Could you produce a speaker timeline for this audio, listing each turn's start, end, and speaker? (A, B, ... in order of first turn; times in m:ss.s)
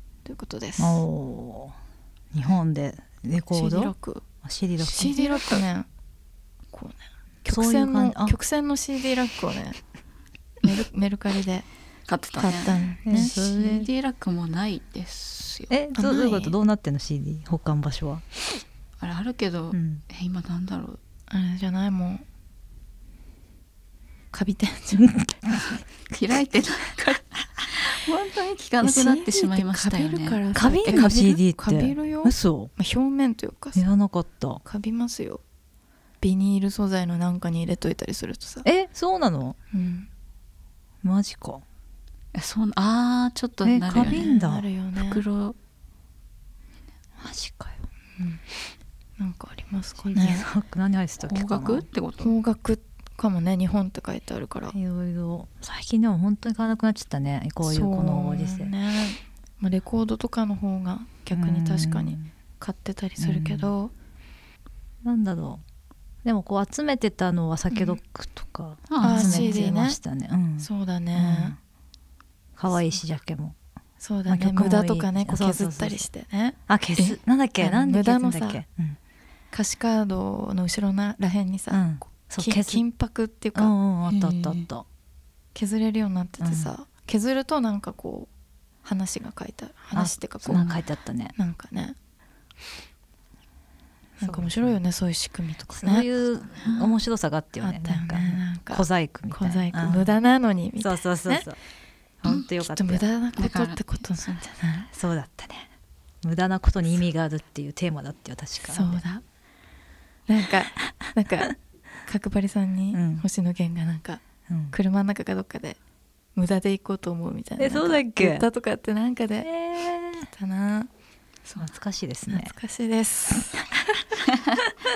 0:00.2-0:01.0 A
0:00.8-0:01.8 B
0:02.3-0:03.9 B
0:03.5-0:04.2 A
0:04.4-0:05.2 B
0:04.8-0:05.6 C
0:04.9-0:05.9 A
0:06.7-0:09.8 A
0:07.4-0:08.4 B
0:10.6-0:11.7 A
0:12.1-0:15.7 C
0:12.4-0:13.3 A
0:13.1-0:13.9 B
0:15.7-0:18.2 B
0:16.0-0:16.6 A
0:19.0-0:21.0 C
0:19.7-0:20.0 B
0:21.3-0:22.2 A
0:24.3-0:25.1 A
0:25.0-0:25.8 B
0:26.1-0:31.0 C
0:28.8-0:33.9 A
0:30.6-0:32.7 B
0:33.8-0:34.6 B
0:34.6-0:35.4 A
0:36.2-0:38.7 A
0:38.6-0:39.6 B
0:39.7-0:40.1 A
0:41.0-0:41.6 B
0:42.3-0:44.4 C
0:43.6-0:44.6 B
0:44.0-0:45.2 A
0:44.9-0:45.6 C
0:47.2-0:47.8 B
0:49.2-0:50.5 A
0:50.0-0:51.9 B
0:51.2-0:52.4 C
0:52.2-0:54.8 A
0:54.7-0:58.7 B
0:57.6-1:03.9 A
1:01.3-1:02.3 B
1:03.2-1:03.7 B
1:05.0-1:05.6 B
1:06.2-1:11.6 B
1:07.7-1:08.0 A
1:08.9-1:09.7 C
1:09.0-1:10.0 A
1:10.6-1:11.6 A
1:12.6-1:13.6 B
1:12.7-1:13.0 A
1:14.0-1:18.6 A
1:14.3-1:16.0 B
1:16.7-1:19.0 B
1:19.5-1:23.7 A
1:21.7-1:22.8 B
1:23.6-1:24.8 B
1:24.1-1:24.7 C
1:25.6-1:28.3 A
1:26.4-1:26.7 B
1:28.8-1:30.7 A
1:29.9-1:31.3 B
1:30.5-1:30.8 C
1:31.4-1:32.0 A
1:34.2-1:36.1 A
1:34.2-1:34.8 B
1:35.8-1:40.1 B
1:36.5-1:37.0 C
1:37.6-1:41.5 A
1:40.8-1:41.6 B
1:42.2-1:43.0 B
1:42.5-1:44.9 A
1:43.4-1:43.8 C
1:44.9-1:45.7 B
1:46.2-1:49.0 B
1:48.7-1:49.2 A
1:50.3-1:54.2 A
1:52.9-1:53.2 B
1:54.5-1:54.8 B
1:54.7-1:55.8 A
1:56.4-1:59.5 A
1:57.6-1:58.4 B
1:59.4-2:00.3 B
2:00.3-2:00.9 A
2:01.5-2:01.7 C
2:01.6-2:02.5 B
2:02.3-2:03.8 A